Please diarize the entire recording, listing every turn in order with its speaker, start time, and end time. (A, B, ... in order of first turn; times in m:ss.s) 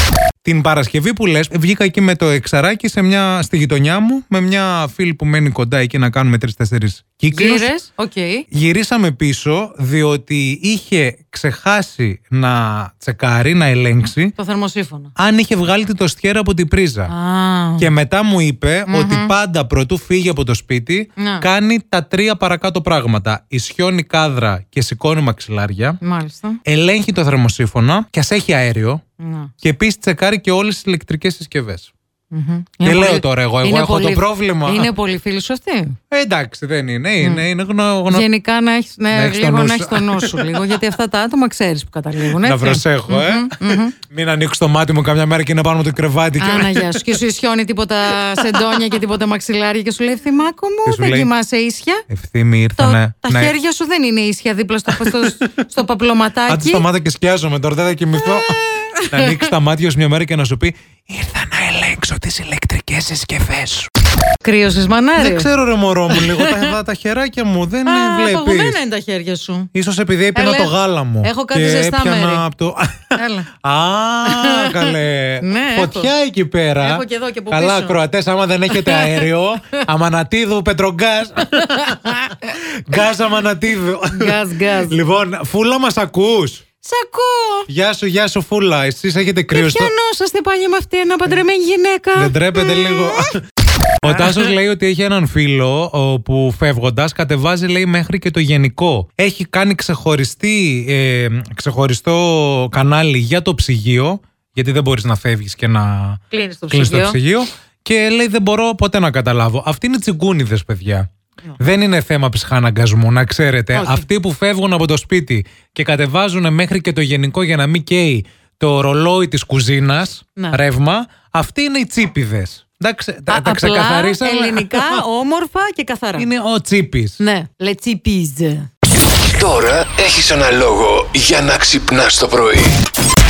0:00.4-0:07.7 A
0:07.3-0:08.4 B
0:08.5-0:14.4 A
0:14.4-0:15.1 B
0:15.2-0:17.1 A
0:17.1-0:17.9 B
0:17.8-0:26.0 A
0:18.9-0:19.3 B
0:21.2-0:21.5 B
0:26.0-0:26.6 B
0:26.6-0:29.0 A
0:29.2-0:29.5 B
0:29.6-0:31.9 A
0:32.3-0:36.0 B
0:32.8-0:34.9 A
0:36.1-0:38.3 A
0:38.1-0:44.0 B
0:39.1-0:40.8 A
0:42.3-0:47.2 A
0:46.4-0:52.0 B
0:48.4-0:48.9 A
0:50.9-0:51.3 A
0:52.1-0:53.5 A
0:52.8-0:56.9 B
0:54.9-0:55.6 A
0:56.5-1:03.9 A
0:58.3-0:59.4 B
1:04.4-1:05.5 B
1:05.2-1:08.8 A
1:06.1-1:06.8 B
1:07.9-1:09.7 B
1:09.7-1:26.6 A
1:10.4-1:12.4 B
1:13.2-1:13.5 B
1:14.3-1:16.1 B
1:16.8-1:18.0 B
1:18.7-1:19.3 B
1:21.4-1:22.6 B
1:24.1-1:25.0 B
1:26.8-1:27.7 B
1:27.7-1:29.9 A
1:29.5-1:33.4 B
1:32.2-1:33.4 A
1:34.0-1:51.1 A
1:34.0-1:34.5 B
1:46.3-1:47.2 B
1:51.6-2:05.0 A
1:53.7-1:54.1 B
2:03.3-2:06.3 B
2:06.2-2:07.2 A
2:07.2-2:08.7 B
2:09.2-2:12.8 C